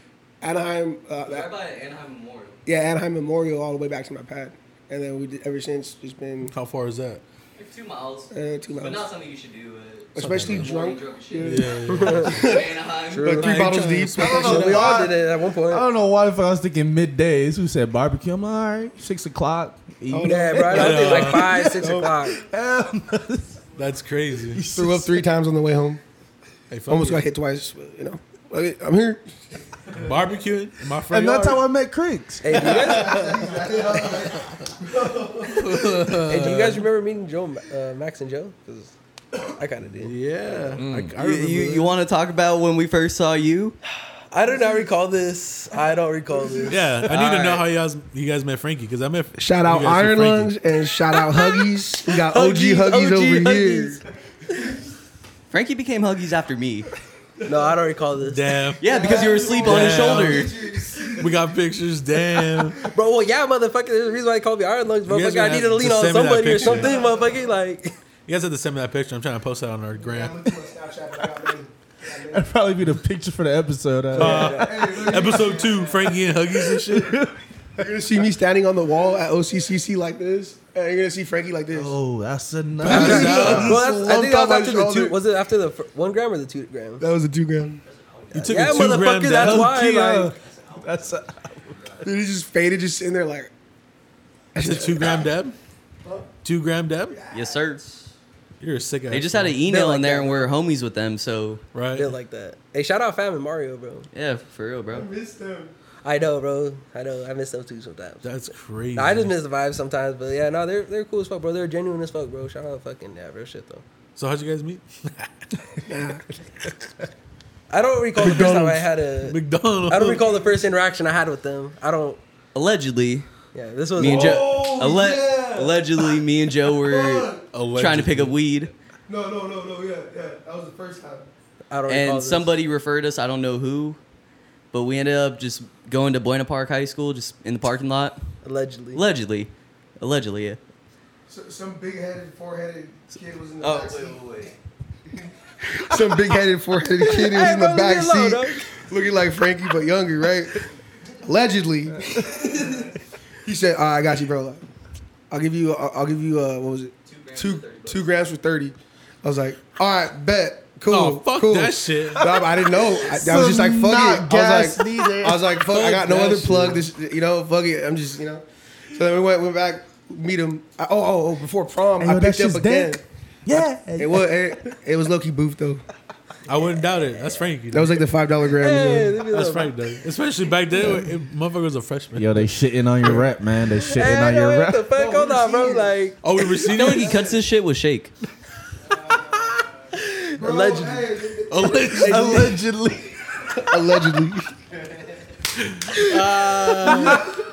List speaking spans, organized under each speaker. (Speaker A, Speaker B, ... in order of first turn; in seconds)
Speaker A: 0.4-1.5, 2.6-6.5, 8.3-9.1, 10.1-15.1, 20.1-22.1, 24.7-26.0, 26.9-29.3, 32.5-36.0, 44.4-44.9, 46.3-47.1, 49.4-54.0, 57.4-57.8, 58.8-61.3, 66.5-67.5, 69.9-72.5, 74.2-76.2, 77.8-82.0, 82.8-85.2, 87.0-87.8, 92.0-93.5, 94.5-95.3, 96.0-96.3, 97.1-97.8, 104.9-105.7, 115.8-116.2, 118.2-118.9, 124.0-127.4, 129.1-131.3, 141.3-144.5, 145.1-150.7, 151.2-154.6, 155.3-173.0, 173.9-175.8, 177.7-179.2, 184.9-185.9, 186.7-187.4, 188.8-189.6, 190.3-192.6, 193.6-194.5
Speaker B: 1.2-2.6, 7.5-13.6, 41.1-43.8, 47.1-47.6, 55.5-56.9, 58.8-60.7, 87.9-88.5, 97.3-97.8, 99.1-101.6, 104.1-105.1, 122.5-123.3, 124.0-128.7, 131.9-134.0, 134.7-138.2, 138.9-140.6, 143.6-144.5, 157.1-158.1, 186.7-188.1
Speaker C: 6.5-7.2, 10.2-10.7, 11.4-12.6, 13.5-14.4, 20.7-21.6, 23.8-24.7, 26.7-27.2, 29.9-31.7, 35.4-36.8, 40.0-41.9, 46.7-50.5, 58.2-60.5, 61.1-62.9, 65.1-67.0, 68.3-70.5, 74.2-77.2, 82.8-83.8, 88.3-89.8, 94.6-95.5, 96.4-97.2, 98.6-99.6, 101.7-102.1, 108.2-109.3, 114.2-115.3, 119.2-120.2, 127.5-128.3, 160.9-162.3, 165.6-166.8, 176.5-178.1, 179.2-182.5, 183.0-183.3, 186.2-187.2, 191.5-192.5, 195.6-197.2
Speaker D: 11.9-12.3, 13.1-15.8, 20.2-22.4, 32.4-33.5, 36.2-38.9, 39.5-40.8, 44.3-46.9, 51.3-51.6, 52.2-54.0, 57.5-58.6, 62.8-67.9, 74.1-75.0, 82.9-87.0, 88.5-90.3, 99.6-100.5, 101.9-104.1, 106.0-108.3, 108.9-113.8, 117.7-122.2, 123.5-124.5, 131.7-132.5, 138.4-139.0, 147.0-148.7, 178.5-179.8, 183.8-186.2, 190.3-191.1, 196.8-197.2
Speaker E: 14.1-23.6, 24.5-25.2, 31.1-32.9, 40.8-41.1, 72.3-74.6, 76.5-77.8, 81.7-83.8, 89.3-91.7, 152.0-152.4, 162.0-165.6, 172.0-174.6, 180.8-181.0, 182.1-184.8, 192.0-193.5